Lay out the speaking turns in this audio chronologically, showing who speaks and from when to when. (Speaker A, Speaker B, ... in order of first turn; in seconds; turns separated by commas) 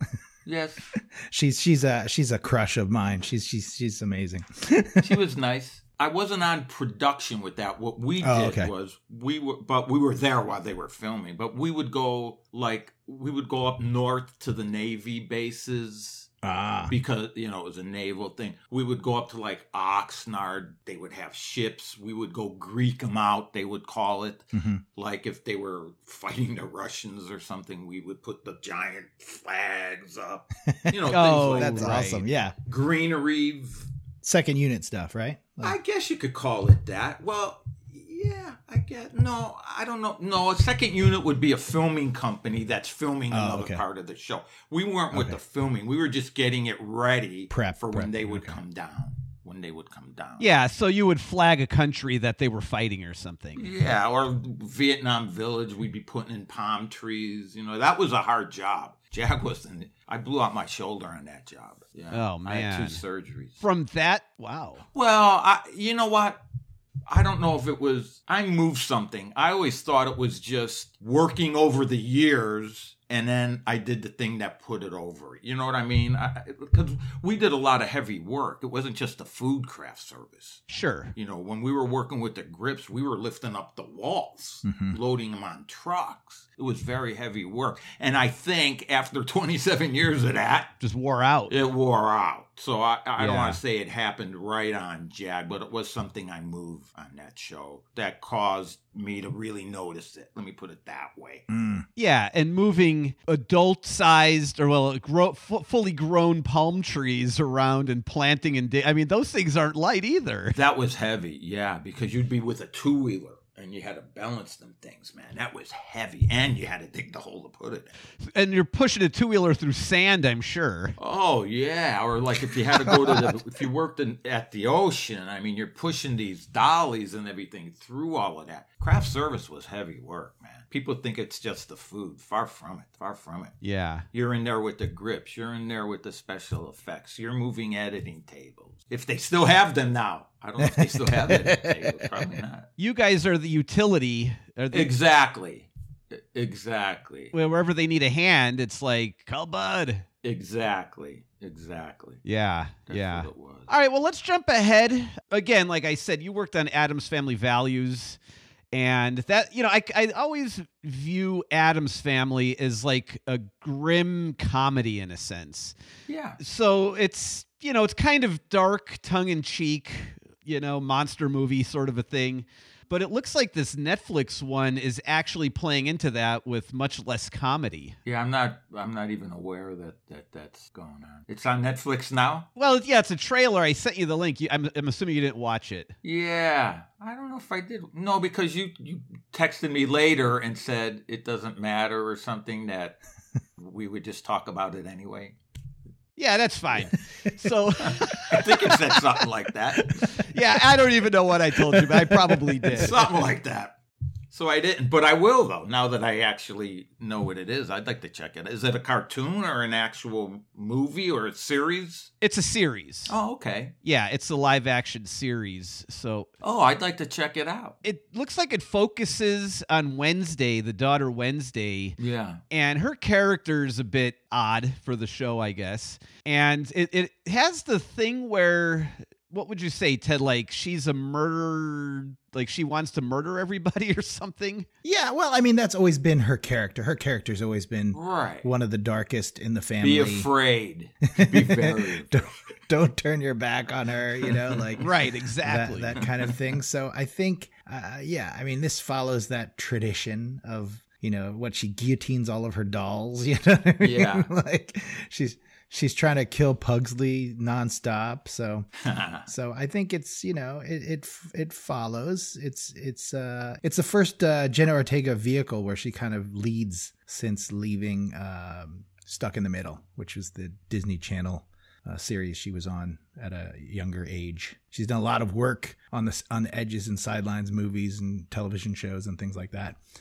Speaker A: 0.5-0.9, Speaker B: 0.9-5.2, Speaker A: 5.0-16.3, Speaker B: 8.2-8.7, Speaker B: 16.4-16.9, Speaker A: 16.9-32.1, Speaker B: 24.5-24.8, Speaker B: 30.7-32.6, Speaker C: 31.1-32.2, Speaker A: 32.6-33.9, Speaker B: 34.2-35.8, Speaker A: 35.6-50.5, Speaker B: 43.3-43.8, Speaker B: 45.1-45.4, Speaker B: 47.5-48.6, Speaker C: 50.4-53.7, Speaker A: 53.6-63.6, Speaker C: 62.1-63.0, Speaker C: 63.6-64.8, Speaker A: 64.9-66.4, Speaker A: 67.1-90.7, Speaker C: 80.7-81.1, Speaker B: 84.7-85.0, Speaker C: 90.8-91.5, Speaker A: 91.5-101.5, Speaker C: 93.2-93.6, Speaker B: 101.5-101.9, Speaker C: 102.0-110.6, Speaker A: 110.5-117.9, Speaker C: 118.2-121.0, Speaker A: 121.0-133.6, Speaker C: 133.6-134.1, Speaker A: 134.1-142.7, Speaker B: 140.6-142.1, Speaker C: 142.8-144.9, Speaker A: 144.7-147.3, Speaker C: 147.3-150.1, Speaker A: 150.2-152.2, Speaker C: 152.2-158.2, Speaker A: 152.9-153.7, Speaker C: 158.7-165.8, Speaker A: 166.1-166.4, Speaker C: 166.4-178.0, Speaker A: 178.1-182.5, Speaker C: 182.6-185.9, Speaker A: 186.0-193.0, Speaker A: 193.6-195.4, Speaker C: 196.2-198.8, Speaker A: 197.9-200.2, Speaker C: 200.2-203.0, Speaker B: 201.6-202.9, Speaker A: 202.7-203.8, Speaker A: 204.3-212.1, Speaker C: 212.2-213.1, Speaker A: 213.1-213.7, Speaker C: 213.8-216.3, Speaker A: 216.4-217.8, Speaker C: 217.8-222.0, Speaker A: 222.0-222.4, Speaker C: 222.5-234.7, Speaker B: 234.8-240.3, Speaker A: 237.9-238.5, Speaker A: 239.8-242.3, Speaker B: 241.2-258.7, Speaker A: 244.2-244.8, Speaker C: 244.8-246.0, Speaker A: 253.8-254.3, Speaker A: 258.8-259.3, Speaker B: 259.3-279.8